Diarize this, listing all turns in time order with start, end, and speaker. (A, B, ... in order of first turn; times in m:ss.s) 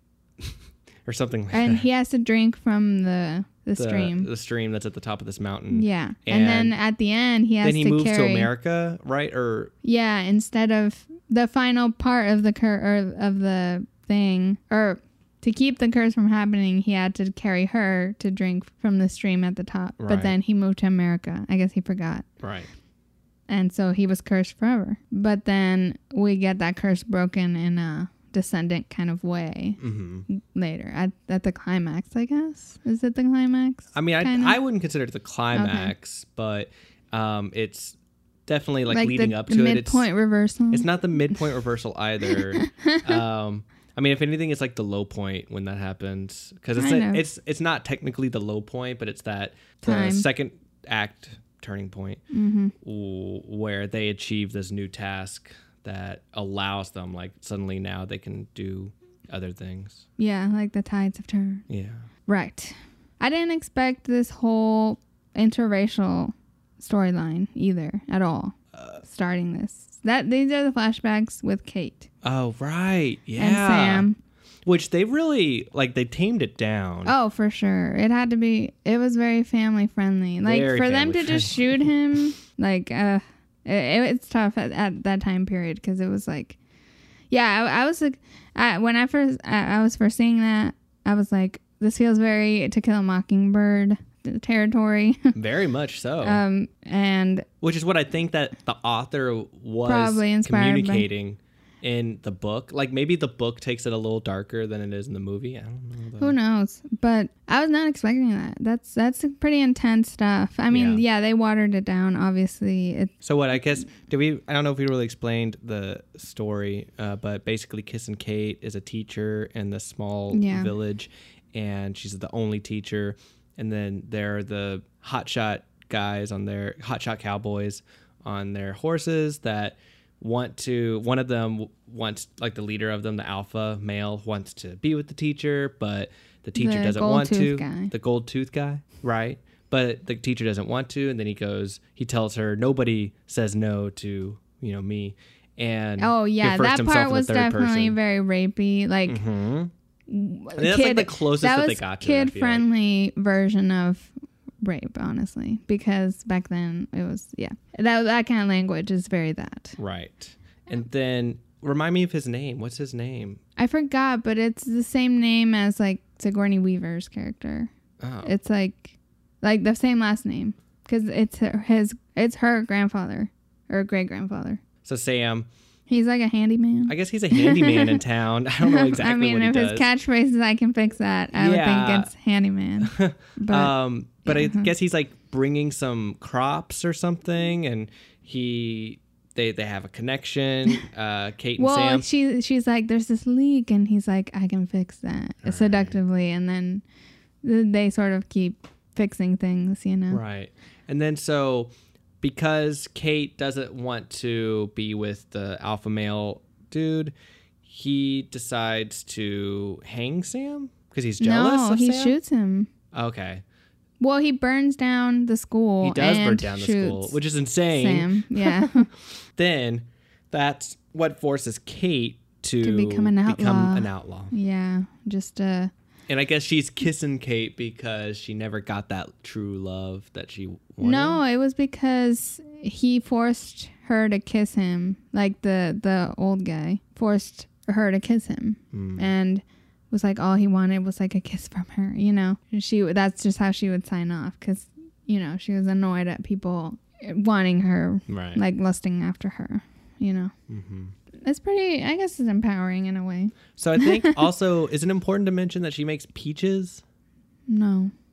0:00.4-0:01.9 A
0:01.5-0:04.3 B
0:03.8-0:06.7 A
0:05.7-0:08.5 B
0:07.6-0:09.7 A
0:09.8-0:22.3 B
0:20.0-0:20.4 A
0:22.4-0:22.7 A
0:23.5-0:34.6 B
0:29.8-0:30.2 A
0:33.9-0:38.0 A
0:35.5-0:35.9 B
0:38.5-0:40.1 A
0:38.9-0:41.4 B
0:40.7-0:52.2 A
0:42.2-0:43.2 B
0:46.8-0:47.2 B
0:49.8-0:50.3 B
0:52.3-0:52.7 B
0:52.8-1:00.0 A
1:00.2-1:01.7 B
1:01.7-1:02.0 A
1:02.3-1:12.1 B
1:08.8-1:09.0 A
1:12.2-1:14.1 A
1:13.4-1:14.2 B
1:14.6-1:17.1 A
1:17.0-1:26.6 B
1:20.4-1:22.2 A
1:27.3-1:35.4 B
1:35.3-1:36.4 A
1:36.2-1:37.5 B
1:37.6-1:46.4 A
1:39.8-1:41.1 B
1:46.2-1:53.1 B
1:50.7-1:51.0 A
1:53.2-2:28.0 A
2:00.3-2:00.7 B
2:16.6-2:17.9 B
2:26.0-2:29.2 B
2:29.1-2:29.7 A
2:30.1-2:39.8 B
2:30.6-2:32.7 A
2:39.8-2:43.4 A
2:43.6-2:47.7 B
2:48.0-2:48.3 A
2:48.2-2:54.6 B
2:54.8-2:55.5 A
2:55.9-2:58.0 B
2:56.9-2:59.9 A
2:58.6-3:03.7 B
3:01.3-3:02.1 A
3:02.8-3:12.1 A
3:04.2-3:04.7 B
3:11.6-3:16.8 B
3:15.4-3:16.0 A
3:17.4-3:20.2 B
3:20.1-3:21.7 A
3:22.2-3:27.1 A
3:27.6-3:32.2 A
3:31.2-3:32.7 B
3:32.9-3:33.4 A
3:34.0-3:37.2 B
3:35.8-3:44.3 A
3:37.7-3:38.9 B
3:42.6-3:45.7 B
3:46.1-3:51.2 A
3:50.8-4:10.3 B
3:58.7-3:59.1 A
4:08.1-4:08.4 A
4:10.5-4:10.9 A
4:11.2-4:14.3 B
4:13.6-4:16.8 A
4:17.5-4:17.9 B